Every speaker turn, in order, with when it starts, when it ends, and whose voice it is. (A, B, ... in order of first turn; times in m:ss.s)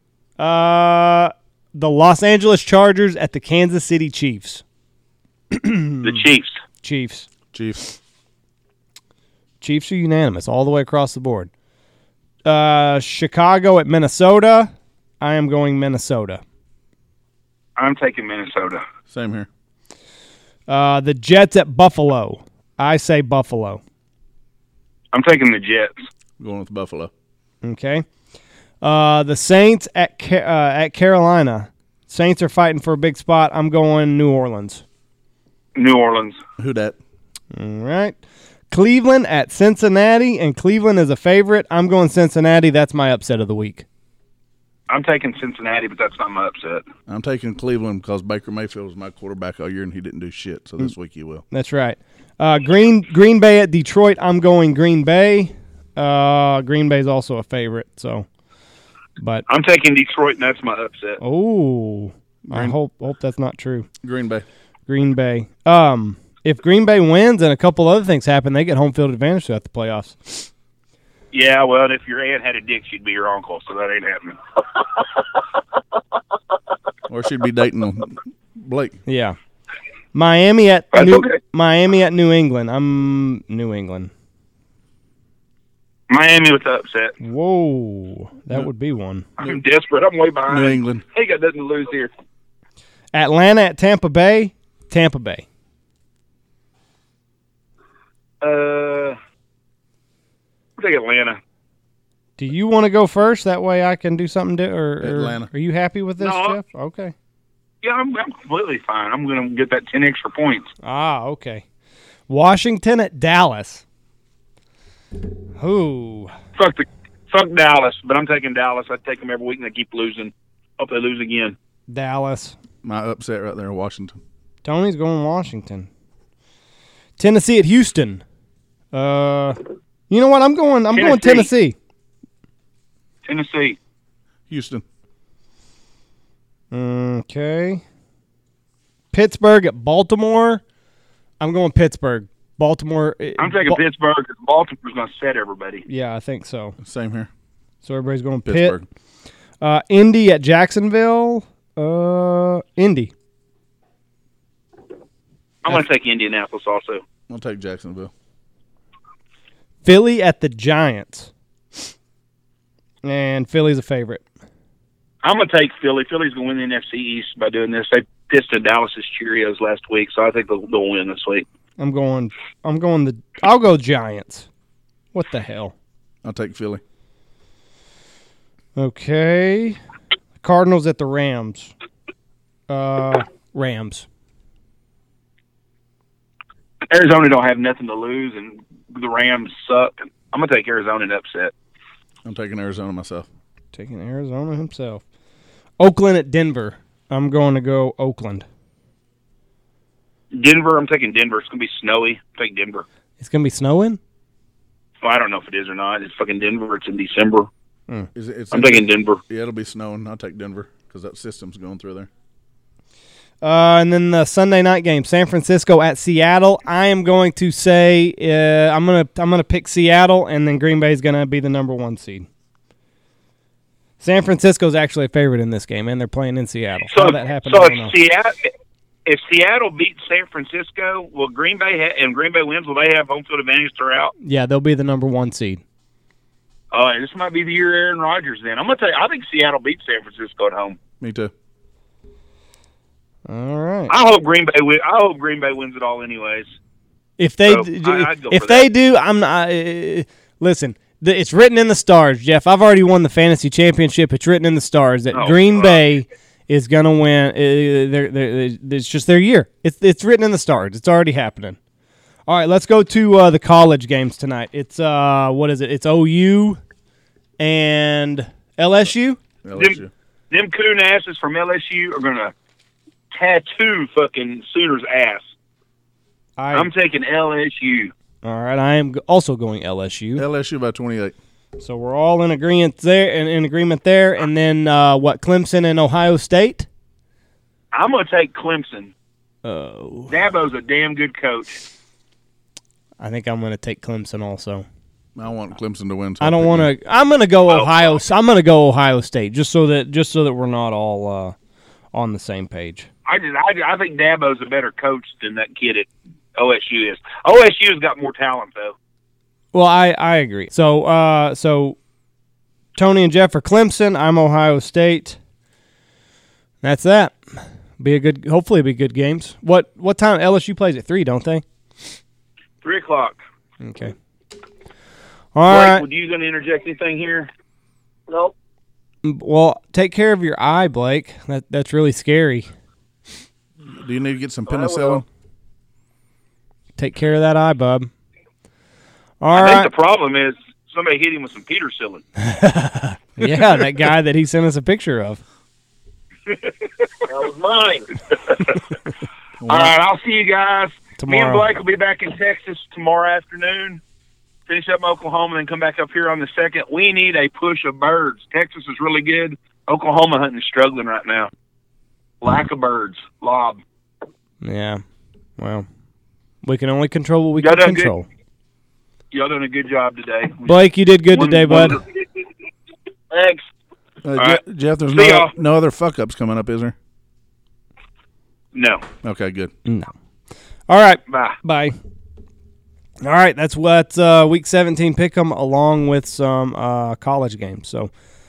0:00.4-0:04.6 A
0:05.5-0:06.2 A
0:06.0-0:06.6 B
0:06.8-0:07.3 A
0:07.5-0:08.0 C
0:09.6-0:11.5 A
0:12.4-0:16.4 A
0:17.8-0:18.8 B
0:19.1-0:19.5 C
0:20.7-0:23.8 A
0:25.1-0:25.9 B
0:26.4-0:27.1 C
0:27.6-0:28.0 A
0:28.8-0:34.8 A
0:35.8-0:36.4 B
0:36.6-0:37.0 C
0:37.5-0:38.2 A
0:38.7-0:43.8 A
0:44.9-0:46.8 B
0:47.1-0:51.4 C
0:51.5-0:58.3 A
0:59.2-0:59.4 A
0:59.5-1:01.2 B
1:01.2-1:03.9 A
1:04.0-1:04.4 C
1:04.9-1:10.5 A
1:11.3-1:14.4 B
1:17.1-1:19.0 C
1:19.1-1:19.4 A
1:20.1-1:24.1 A
1:20.9-1:21.4 B
1:26.1-1:27.1 B
1:27.2-1:29.3 A
1:29.4-1:32.1 B
1:30.5-1:31.0 C
1:33.1-1:35.4 A
1:38.4-1:39.2 B
1:40.8-1:41.4 B
1:42.4-1:47.1 A
1:45.0-1:45.5 C
1:46.2-1:46.6 B
1:47.8-1:50.7 B
1:50.8-1:51.6 A
1:52.3-1:53.8 A
1:55.6-1:56.3 A
1:56.6-2:01.6 B
2:01.9-2:02.6 A
2:02.8-2:04.2 C
2:04.6-2:05.9 A
2:07.2-2:08.2 A
2:08.9-2:09.6 A
2:10.1-2:11.8 A
2:10.9-2:11.5 B
2:13.2-2:13.8 B
2:14.5-2:14.8 C
2:16.7-2:17.8 A
2:19.1-2:20.6 A
2:21.4-2:23.8 A
2:23.4-2:25.8 B
2:25.9-2:26.8 A
2:26.8-2:27.3 C
2:27.8-2:28.8 A
2:28.4-2:28.9 C
2:29.6-2:33.1 A
2:35.6-2:37.0 B
2:37.3-2:38.1 C
2:39.8-2:41.3 A
2:43.0-2:44.2 A
2:45.2-2:51.4 B
2:51.8-2:54.5 A
2:55.1-2:55.7 A
2:56.2-2:56.8 C
2:58.8-2:59.8 A
3:00.4-3:01.7 A
3:02.7-3:04.1 A
3:06.9-3:11.5 B
3:12.2-3:13.2 C
3:13.7-3:15.0 A
3:15.8-3:18.4 A
3:20.3-3:22.8 B
3:23.2-3:24.0 A
3:25.0-3:27.5 B
3:28.1-3:32.1 C
3:28.5-3:29.2 B
3:33.4-3:42.3 A
3:44.0-3:47.9 A
3:46.9-3:48.4 B
3:49.1-3:54.1 B
3:54.2-3:55.6 A
3:56.7-4:00.8 B
4:01.0-4:01.3 C
4:03.3-4:03.9 A
4:03.9-4:06.5 B
4:07.2-4:21.6 A
4:07.4-4:08.7 B
4:15.1-4:15.8 B
4:22.3-4:26.6 A
4:27.4-4:29.2 A
4:29.4-4:29.9 C
4:29.5-4:32.3 B
4:33.1-4:35.3 B
4:36.4-4:36.7 A
4:36.5-4:37.9 B
4:38.2-4:40.2 A
4:40.2-4:41.1 C
4:41.6-4:46.7 A
4:47.7-4:48.9 B
4:49.4-4:50.1 A
4:50.1-4:51.6 B
4:53.0-4:54.6 A
4:55.2-4:56.7 C
4:56.2-5:01.3 A
4:57.5-4:57.9 B
5:01.9-5:02.9 A
5:03.1-5:08.7 B
5:09.5-5:11.8 A
5:12.8-5:15.2 A
5:16.6-5:17.2 A
5:17.8-5:21.4 A
5:22.6-5:23.2 B
5:23.6-5:23.9 A
5:25.3-5:25.8 A
5:25.4-5:27.3 B
5:28.1-5:28.3 D
5:29.0-5:32.5 A
5:33.6-5:35.0 C
5:34.5-5:35.0 D
5:36.8-5:37.9 A
5:39.2-5:39.7 A
5:39.3-5:42.0 B
5:42.2-5:45.2 A
5:47.0-5:47.9 D
5:49.4-5:49.7 C
5:49.5-5:53.8 B
5:51.0-5:51.5 A
5:54.5-6:01.3 B
6:02.2-6:03.6 B
6:04.4-6:04.8 A
6:05.4-6:05.6 A
6:06.4-6:08.0 A
6:07.4-6:07.9 B
6:09.1-6:11.8 B
6:10.4-6:11.8 A
6:13.1-6:13.4 D
6:14.0-6:16.7 C
6:14.2-6:14.4 B
6:14.9-6:15.3 B
6:18.5-6:18.8 B
6:19.0-6:19.5 C
6:19.6-6:19.9 A
6:20.7-6:21.7 A
6:21.1-6:21.4 B
6:23.0-6:27.9 A